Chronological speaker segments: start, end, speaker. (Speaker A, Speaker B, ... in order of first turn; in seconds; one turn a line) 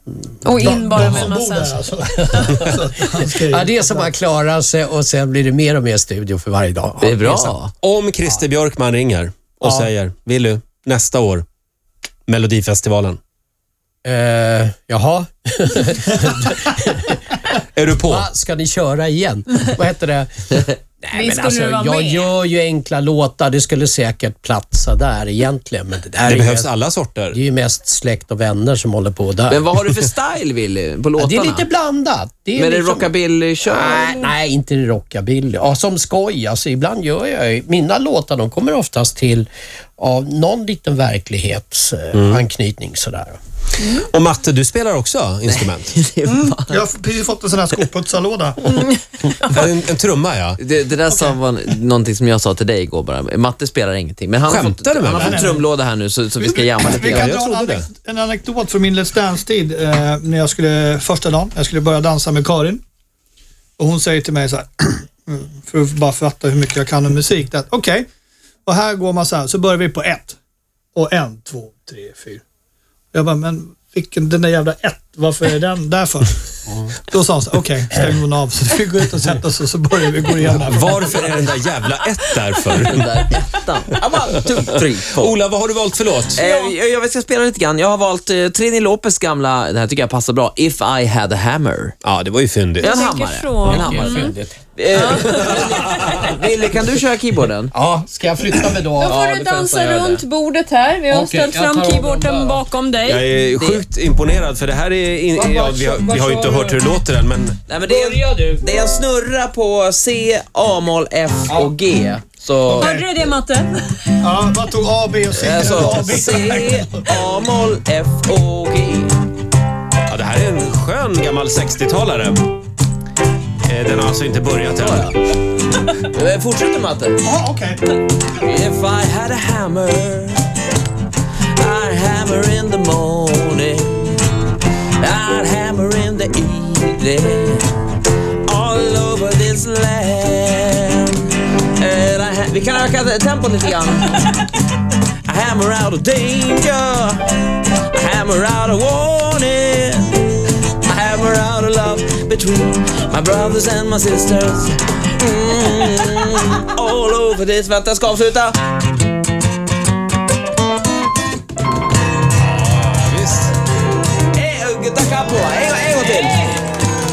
Speaker A: 0.4-2.7
Speaker B: 0.6-4.1
Speaker C: 1.0-1.3
Speaker D: 3.4-7.6
Speaker E: 7.0-7.7
Speaker C: 7.8-11.4
Speaker B: 9.6-9.9
Speaker C: 12.3-13.2
Speaker D: 14.0-17.4
Speaker C: 17.7-18.3
Speaker D: 18.1-26.7
Speaker A: 21.1-22.3
Speaker C: 26.2-27.4
Speaker D: 27.3-29.7
Speaker E: 29.5-31.7
Speaker D: 31.2-33.1
Speaker E: 32.5-34.3
Speaker D: 33.6-43.4
Speaker C: 42.1-42.4
Speaker C: 43.8-46.0
Speaker E: 45.5-46.8
Speaker B: 46.4-48.8
Speaker C: 49.4-50.6
Speaker E: 50.6-57.3
Speaker B: 51.1-51.4
Speaker C: 54.5-55.5
Speaker B: 55.2-55.7
Speaker B: 56.4-62.8
Speaker C: 57.1-57.9
Speaker B: 63.8-68.0
Speaker B: 68.7-70.4
Speaker B: 70.9-72.4
Speaker B: 73.1-76.4
Speaker B: 77.0-81.5
Speaker C: 80.5-83.3
Speaker E: 82.8-85.3
Speaker C: 85.1-86.4
Speaker E: 86.3-91.9
Speaker A: 86.3-86.7
Speaker C: 92.0-93.0
Speaker E: 92.8-97.7
Speaker A: 92.8-94.3
Speaker D: 93.6-94.5
Speaker A: 94.9-95.6
Speaker C: 95.6-96.0
Speaker D: 97.7-99.2
Speaker A: 99.0-103.2
Speaker E: 99.0-100.2
Speaker D: 101.1-102.6
Speaker C: 103.0-107.6
Speaker E: 103.6-103.8
Speaker E: 105.4-106.1
Speaker D: 106.1-106.7
Speaker E: 107.7-112.9
Speaker A: 112.7-114.1
Speaker B: 112.7-113.2
Speaker B: 114.2-117.0
Speaker E: 115.3-119.1
Speaker C: 120.1-122.4
Speaker C: 123.6-125.1
Speaker E: 124.8-125.2
Speaker E: 125.8-127.2
Speaker B: 127.2-127.8
Speaker E: 128.4-130.5
Speaker E: 131.5-134.3
Speaker E: 135.0-137.7
Speaker E: 138.4-144.4
Speaker E: 145.2-158.6
Speaker C: 162.4-163.5
Speaker E: 164.3-166.6